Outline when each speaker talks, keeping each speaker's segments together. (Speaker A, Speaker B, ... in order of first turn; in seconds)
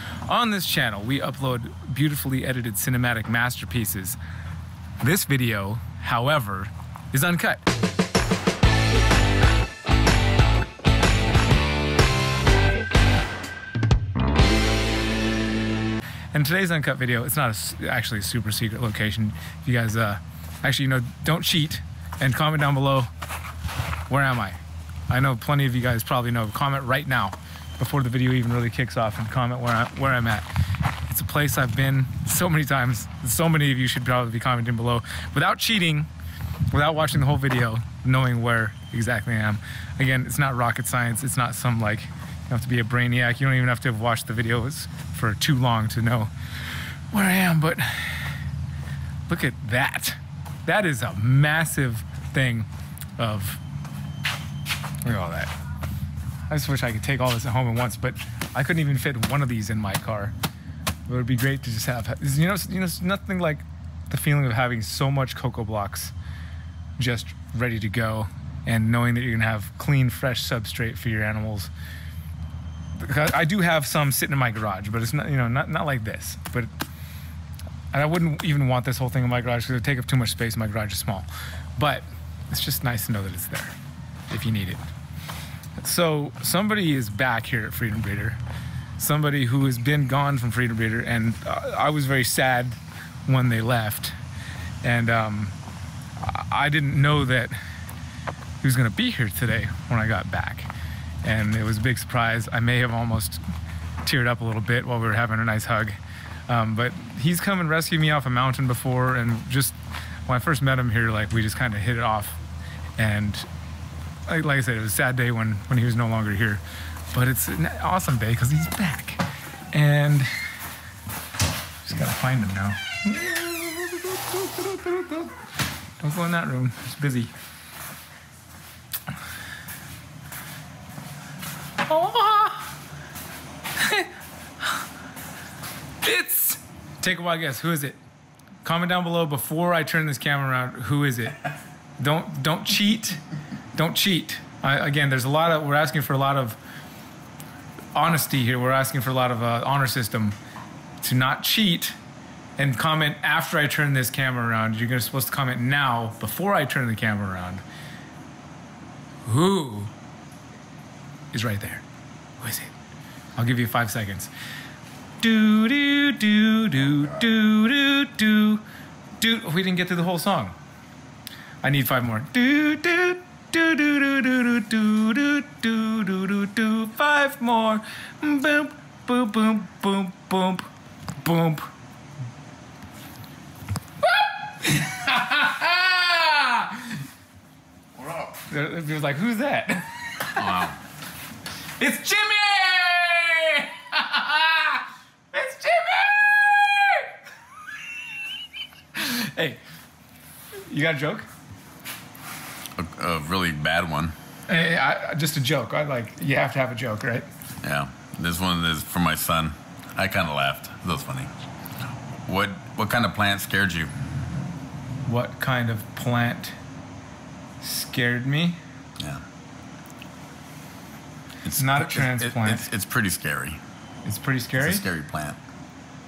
Speaker A: 0.3-4.2, 5.0-7.7, 16.3-23.1, 24.1-30.5, 31.1-36.1, 36.7-46.3, 47.1-48.4, 49.3-53.6, 55.0-55.5, 56.5-60.3, 61.1-66.1, 67.0-71.7, 73.0-76.7, 77.9-83.8, 84.3-84.8, 85.8-88.4, 89.0-94.1, 94.8-95.5, 96.2-97.5, 98.6-100.7, 101.2-103.4, 104.0-106.0, 106.5-109.8, 110.3-112.4, 113.0-113.5, 114.3-119.2, 119.7-120.3, 121.8-125.3, 126.0-127.3, 131.9-132.7, 133.8-134.1, 136.0-138.0, 138.6-141.4, 142.0-143.2, 143.7-146.6, 147.9-150.4, 151.0-152.0, 152.6-157.6, 159.2-159.9, 161.3-161.8, 162.4-162.7, 163.4-164.3, 165.2-168.7, 169.2-170.6, 171.6-180.7, 181.2-181.7, 184.0-187.0, 188.5-190.6, 191.8-197.1, 198.9-199.6, 200.7-201.3, 204.5-207.3, 215.1-216.6, 217.6-218.6, 221.6-222.7, 224.1-224.9
Speaker B: 187.9-188.3, 190.4-190.8, 202.8-204.2, 207.6-211.3, 212.3-213.9, 221.4-223.6, 224.6-225.4